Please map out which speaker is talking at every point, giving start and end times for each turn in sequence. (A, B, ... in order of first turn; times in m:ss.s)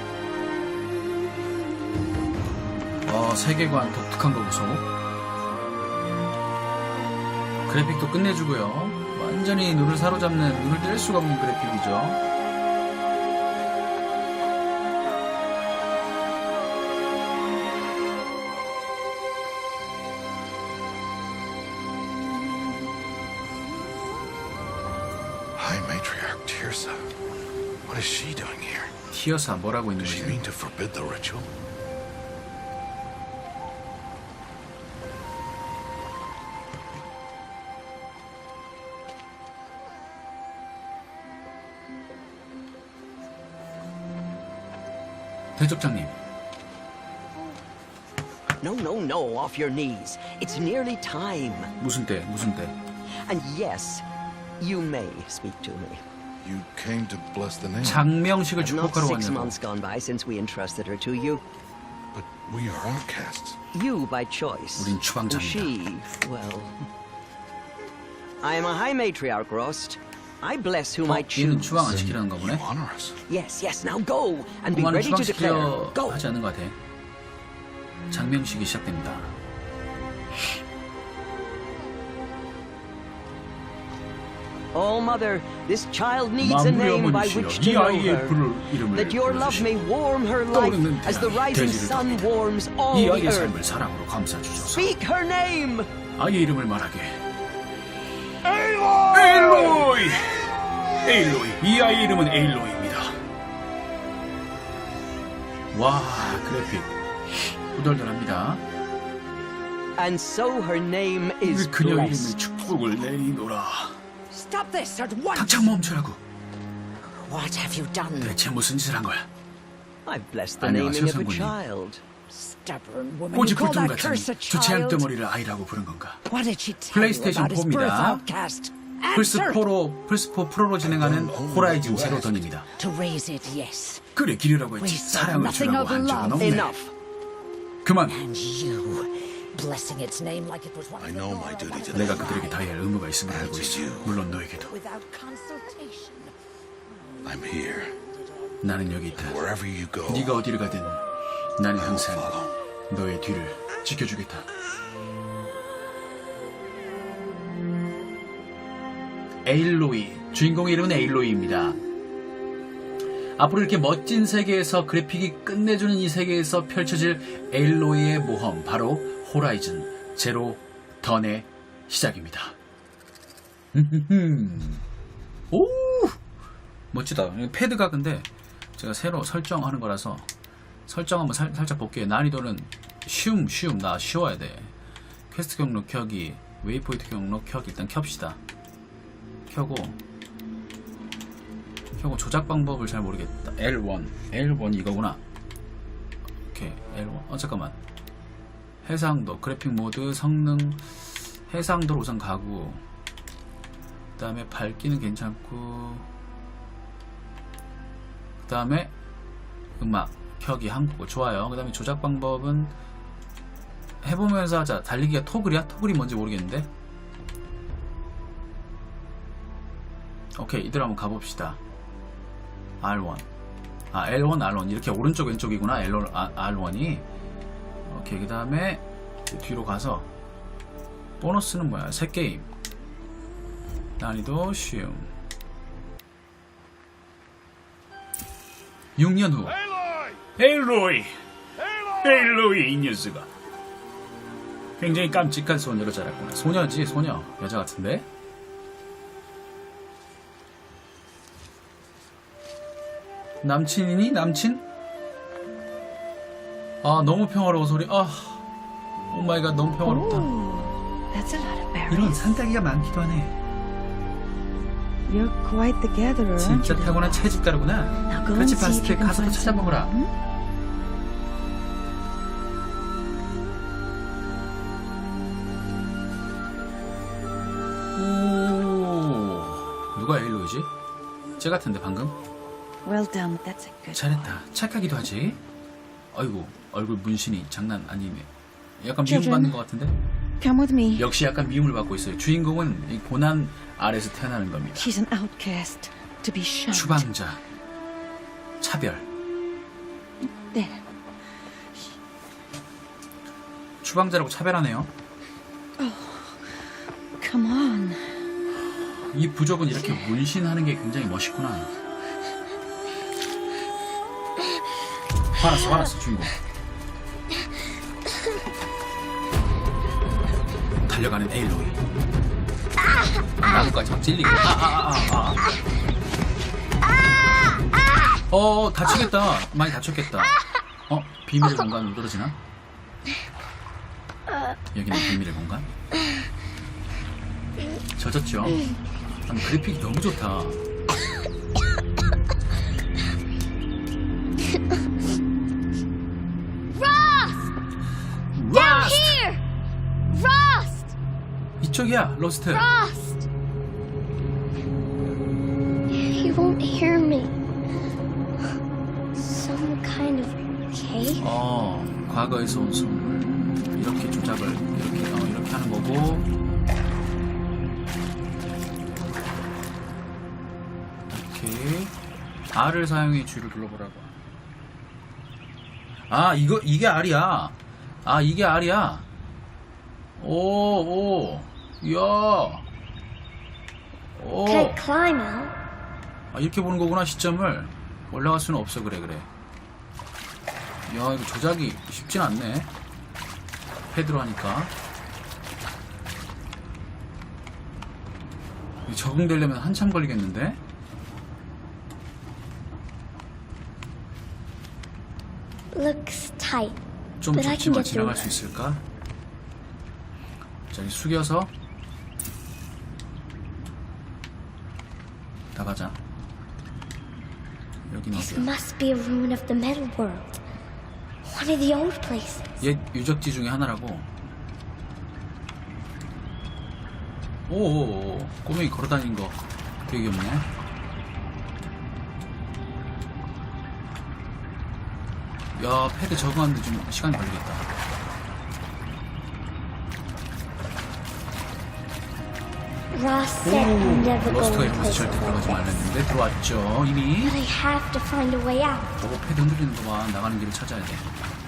0:03.0-0:04.8 A
0:07.7-0:12.2 A
0:25.6-0:27.1 B
0:27.8-0:28.9 B
0:29.1-0:30.4 A
0:30.0-0:31.5 B
0:45.6-0:46.2 A
0:48.6-0:51.7 C
0:51.8-0:52.7 A
0:53.3-0:54.0 C
0:54.6-0:56.0 C
0:56.4-0:58.0 B
0:57.8-0:59.6 A
0:58.6-1:01.4 C
1:02.1-1:03.6 B
1:03.7-1:06.8 C
1:04.8-1:05.7 A
1:08.4-1:12.0 C
1:11.1-1:12.6 A
1:11.8-1:13.2 B
1:13.3-1:16.2 C
1:14.7-1:16.8 A
1:18.1-1:19.4 A
1:24.7-1:33.6 C
1:26.4-1:29.8 A
1:30.5-1:32.4 A
1:32.9-1:35.0 A
1:34.7-1:35.9 C
1:36.2-1:37.2 A
1:38.5-1:39.3 B
1:39.1-1:43.2 A
1:45.7-1:46.9 A
1:47.8-1:48.6 A
1:50.0-1:52.4 C
1:51.4-1:54.0 A
1:54.3-1:55.7 D
1:55.4-1:56.2 A
1:57.0-1:58.4 D
1:58.2-1:59.3 A
2:00.1-2:02.0 C
2:00.6-2:01.6 A
2:02.3-2:05.1 D
2:03.3-2:06.2 A
2:06.3-2:09.7 D
2:06.9-2:08.3 A
2:09.1-2:12.7 A
2:10.8-2:12.5 B
2:12.7-2:14.0 D
2:14.2-2:16.7 A
2:14.8-2:16.7 D
2:16.4-2:16.9 C
2:17.8-2:18.2 A
2:18.1-2:22.7 D
2:21.0-2:22.5 B
2:21.9-2:24.7 A
2:23.3-2:24.2 B
2:24.6-2:26.4 D
2:27.2-2:27.9 B
2:28.6-2:29.4 A
2:29.2-2:30.5 B
2:30.1-2:31.0 A
2:31.6-2:32.4 A
2:31.8-2:32.5 B
2:32.9-2:34.5 A
2:39.4-2:41.8 A
2:43.4-2:52.6 A
2:53.7-2:54.8 A
2:55.5-2:56.2 A
2:56.9-3:00.3 A
3:00.9-3:04.7 A
3:05.3-3:08.4 A
3:09.5-3:10.0 A
3:12.0-3:15.2 A
3:16.5-3:17.8 A
3:18.8-3:22.8 A
3:24.2-3:26.1 A
3:28.4-3:28.9 A
3:29.8-3:32.7 A
3:34.0-3:36.7 A
3:40.4-3:41.6 A
3:42.8-3:43.3 A
3:43.9-3:47.0 A
3:47.9-3:50.1 A
3:51.2-3:52.5 A
3:54.0-3:55.1 A
3:59.0-3:59.6 A
4:00.4-4:01.2 A
4:01.9-4:03.3 A
4:04.8-4:08.1 A
4:13.4-4:14.6 A
4:16.8-4:18.4 A
4:19.1-4:20.3 A
4:19.8-4:22.3 E
4:21.9-4:23.4 A
4:25.1-4:27.3 E
4:26.4-4:29.9 A
4:28.0-4:30.1 E
4:38.0-4:40.7 A
4:41.4-4:42.1 A
4:42.8-4:44.4 E
4:43.9-4:45.4 A
4:46.1-4:48.3 A
4:48.8-4:50.0 A
4:49.0-4:49.6 E
4:50.4-4:51.1 E
4:51.0-4:54.9 A
4:54.8-4:57.1 E
4:56.7-4:57.4 A
4:58.6-4:59.0 A
5:00.2-5:00.8 E
5:03.8-5:04.9 A
5:05.8-5:08.2 E
5:09.1-5:11.7 A
5:15.4-5:16.3 A
5:20.9-5:21.8 A
5:23.0-5:23.7 F
5:23.4-5:25.4 A
5:28.3-5:30.4 A
5:30.9-5:32.4 A
5:34.7-5:35.7 A
5:38.0-5:38.6 A
5:39.3-5:40.6 A
5:46.7-5:47.5 F
5:48.4-5:49.2 A
5:48.5-5:49.4 F
5:50.1-5:50.9 F
5:51.6-5:52.7 A
5:52.5-5:53.3 F
5:55.9-5:57.4 F
5:59.2-6:01.3 F
6:01.2-6:06.3 A
6:11.1-6:11.9 A
6:12.5-6:14.2 A
6:16.1-6:19.1 A
6:20.2-6:22.7 A
6:24.2-6:24.8 A
6:24.5-6:25.5 F
6:26.3-6:29.3 A
6:30.9-6:32.7 A
6:33.9-6:34.7 A
6:38.9-6:40.6 A
6:45.7-6:46.8 F
6:47.2-6:48.8 A
6:47.4-6:48.4 F
6:50.7-6:51.5 A
6:55.6-6:56.0 A
6:57.9-6:58.5 A
6:58.1-7:00.3 F
7:01.2-7:02.4 F
7:02.6-7:04.1 A
7:07.5-7:10.5 A
7:15.6-7:17.7 A
7:22.9-7:25.7 F
7:23.4-7:27.4 A
7:27.2-7:28.9 F
7:29.0-7:31.1 A